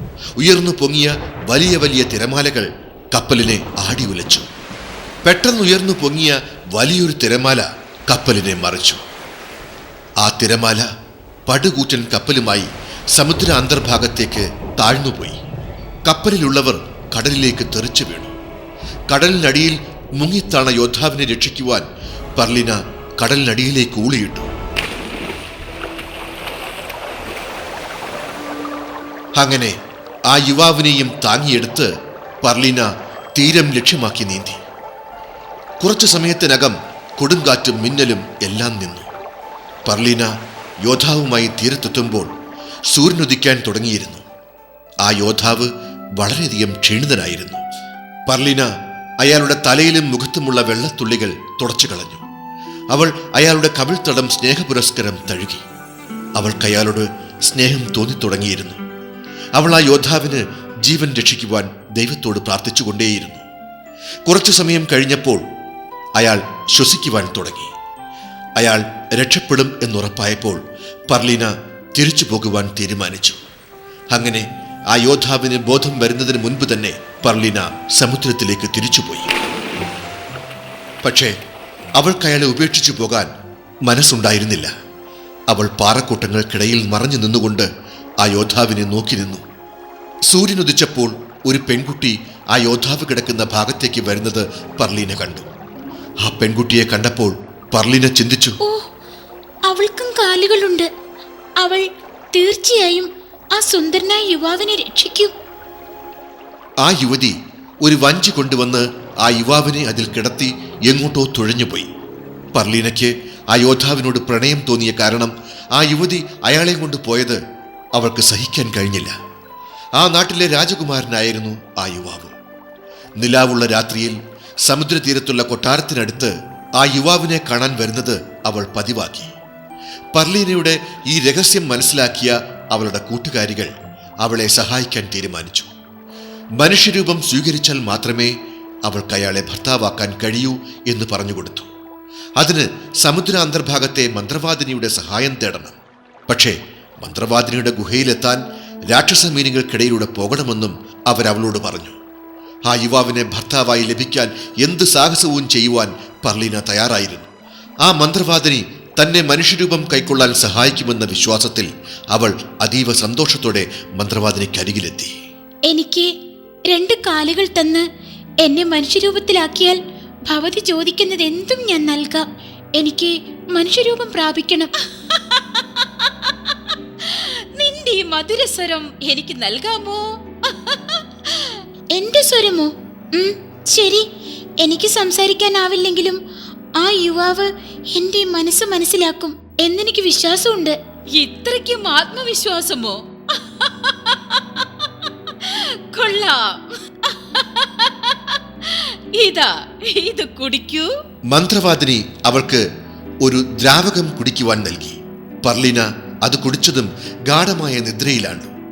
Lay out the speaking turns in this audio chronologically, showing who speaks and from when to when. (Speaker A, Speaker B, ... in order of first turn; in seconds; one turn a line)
Speaker A: 0.4-4.5
Speaker A: 5.2-9.0
Speaker A: 10.2-10.9
Speaker A: 11.5-15.4
Speaker A: 16.1-18.3
Speaker A: 19.1-21.9
Speaker A: 22.4-24.5
Speaker A: 29.4-29.8
Speaker A: 30.3-31.9
Speaker A: 32.4-34.6
Speaker A: 35.8-39.1
Speaker A: 39.9-40.3
Speaker A: 40.8-42.3
Speaker A: 42.9-44.2
Speaker A: 45.0-47.6
Speaker A: 48.3-48.7
Speaker A: 49.2-52.2
Speaker A: 52.9-55.6
Speaker A: 56.4-58.8
Speaker A: 59.6-63.4
Speaker A: 64.3-65.4
Speaker A: 66.2-67.7
Speaker A: 68.6-73.4
Speaker A: 74.1-79.3
Speaker A: 81.0-81.4
Speaker A: 82.0-83.3
Speaker A: 83.9-84.7
Speaker A: 85.5-87.7
Speaker A: 88.2-89.4
Speaker A: 90.3-95.5
Speaker A: 96.2-98.6
Speaker B: 98.6-98.9
Speaker B: 99.7-100.9
Speaker B: 101.6-105.3
Speaker A: 106.8-111.9
Speaker A: 112.5-117.4
Speaker A: 118.0-119.2
Speaker A: 120.0-122.3
Speaker A: 123.2-129.3
Speaker A: 130.1-135.7
Speaker A: 136.6-138.3
Speaker A: 138.9-141.7
Speaker A: 142.4-145.8
Speaker A: 146.3-152.0
Speaker A: 152.7-157.3
Speaker A: 157.8-165.1
Speaker B: 165.7-166.1
Speaker B: 166.7-167.9
Speaker B: 168.4-172.3
Speaker B: 172.8-174.7
Speaker C: 175.1-181.6
Speaker B: 181.9-184.1
Speaker B: 184.6-186.2
Speaker B: 186.8-190.8
Speaker C: 191.2-200.9
Speaker A: 201.3-202.6
Speaker A: 203.2-208.5